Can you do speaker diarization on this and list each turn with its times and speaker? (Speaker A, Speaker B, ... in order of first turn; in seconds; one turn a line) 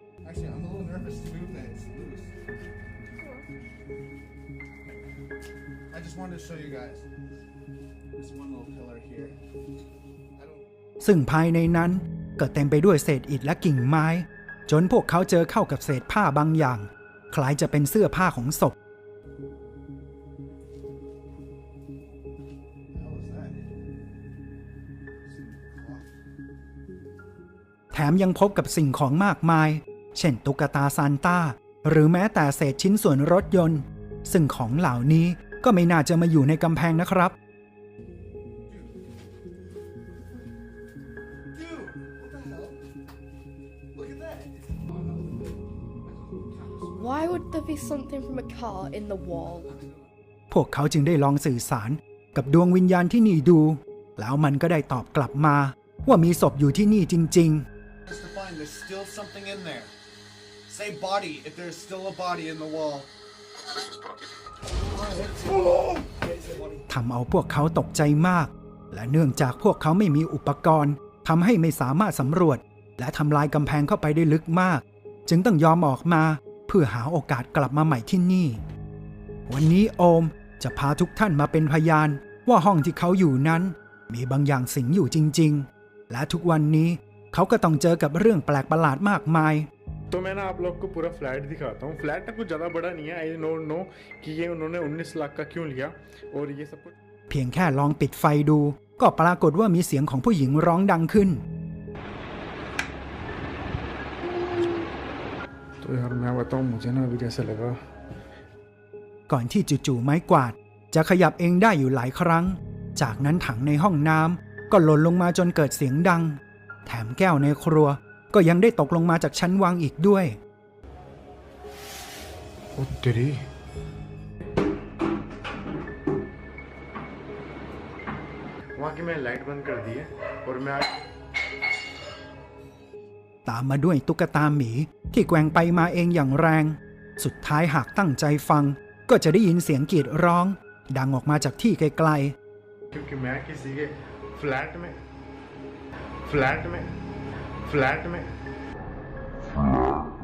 Speaker A: 0.2-2.3
Speaker A: 5.9-7.0
Speaker A: 8.2-9.4
Speaker A: 10.4-10.6
Speaker B: 11.0-18.7
Speaker A: 22.9-23.7
Speaker A: 25.2-26.0
Speaker B: 27.9-37.4
Speaker C: 46.9-49.8
Speaker B: 50.5-57.7
Speaker A: 58.0-59.9
Speaker A: 60.7-63.1
Speaker A: 64.9-65.9
Speaker B: 66.9-78.6
Speaker B: 79.5-89.7
Speaker D: 90.1-96.9
Speaker B: 97.3-101.4
Speaker D: 105.8-107.8
Speaker B: 109.3-120.4
Speaker D: 122.7-123.4
Speaker D: 128.7-131.0
Speaker B: 133.4-142.3
Speaker D: 142.9-145.0
Speaker D: 146.2-146.9
Speaker D: 147.6-148.3